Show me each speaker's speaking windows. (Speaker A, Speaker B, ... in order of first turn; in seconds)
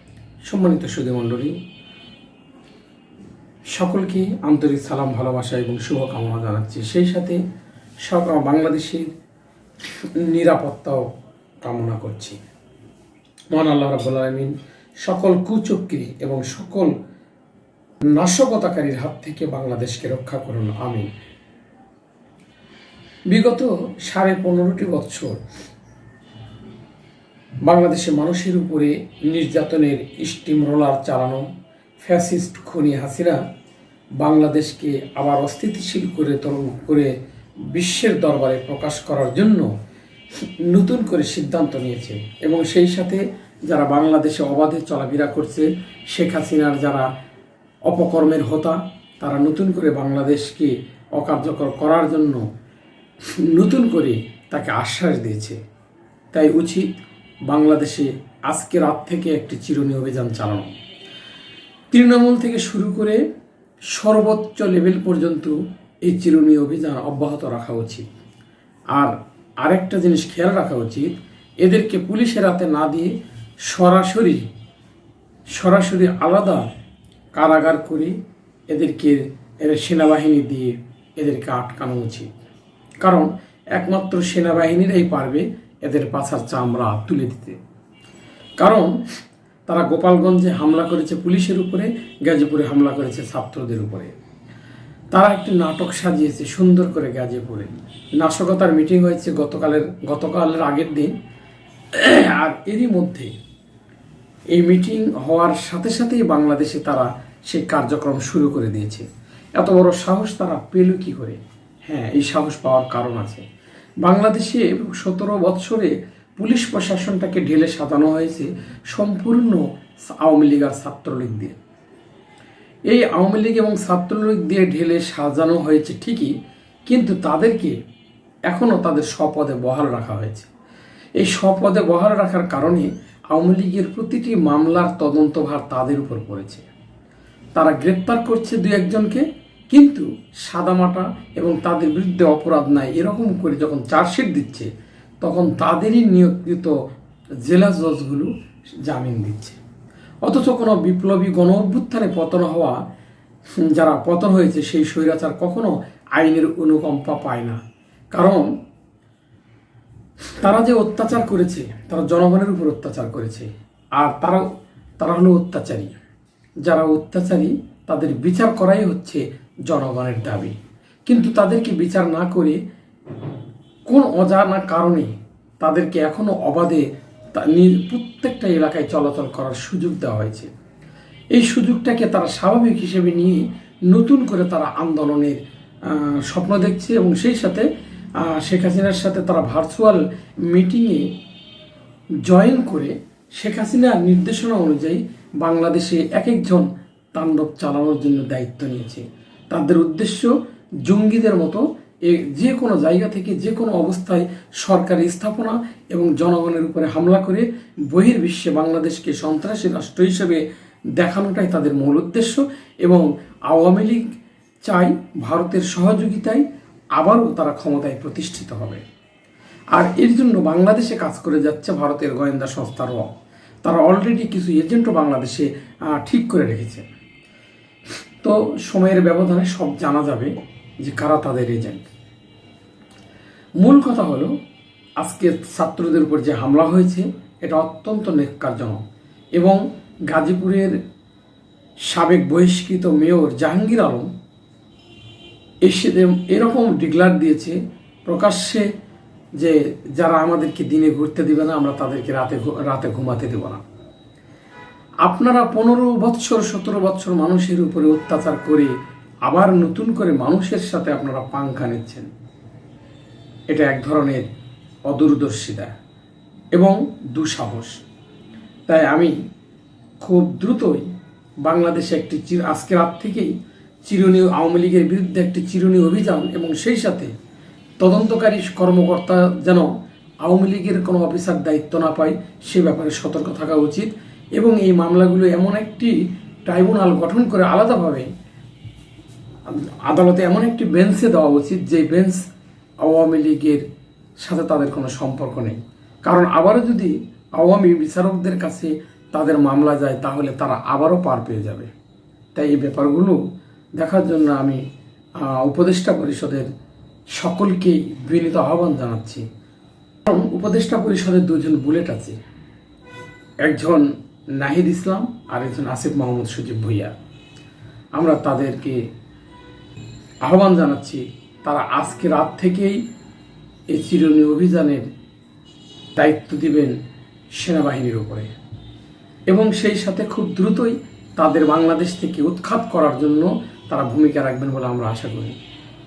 Speaker A: 0.5-1.5, 3.7-7.4, 8.0-9.1, 10.0-11.1, 11.6-12.4, 13.5-16.9, 18.1-21.1, 23.3-25.4, 27.6-31.4, 32.0-33.4, 34.2-37.1, 37.7-39.7, 40.6-47.1, 47.9-52.5, 53.4-55.6, 56.3-56.9, 57.5-60.7, 61.9-63.2, 63.9-68.0, 68.9-71.1, 71.6-73.1, 73.7-74.5, 75.5-76.7, 77.3-78.2, 78.7-82.3, 83.0-87.6, 88.6-89.0, 89.7-94.1, 95.1-101.1, 101.9-103.3, 104.5-109.0, 109.6-113.4, 114.0-121.5, 122.9-126.3, 126.9-127.7, 128.5-130.5, 131.2-136.7, 137.6-144.7, 145.2-146.7, 147.4-148.3, 148.8-149.6, 150.2-152.8, 153.6-157.6, 158.1-158.5, 160.4-164.4, 165.0-165.9, 166.6-170.5, 171.1-172.6, 173.9-180.5, 181.3-187.7, 188.2-191.1, 192.2-200.3, 200.8-210.4, 211.0-214.0, 214.6-216.4, 217.0-218.8, 219.7-223.1, 223.6-226.8, 228.2-230.3, 230.8-231.9, 233.6-234.3, 235.0-238.8, 240.1-240.8, 241.9-244.1, 245.6-247.6, 248.1-248.7, 249.4-253.6, 255.0-258.7, 259.2-262.1, 263.5-264.2, 264.9-265.7, 266.5-267.8, 268.7-269.1, 270.0-270.9, 271.4-273.3, 273.9-277.1, 277.8-279.7, 280.2-285.9, 286.4-288.1, 289.5-292.2, 292.8-293.6, 294.2-301.7, 302.3-303.2, 303.8-304.6, 305.2-306.5, 307.1-309.2, 310.0-312.2, 313.4-313.8, 314.4-316.9, 317.9-318.8, 320.2-322.8, 323.7-324.8, 325.9-326.7, 327.4-328.3, 329.3-335.3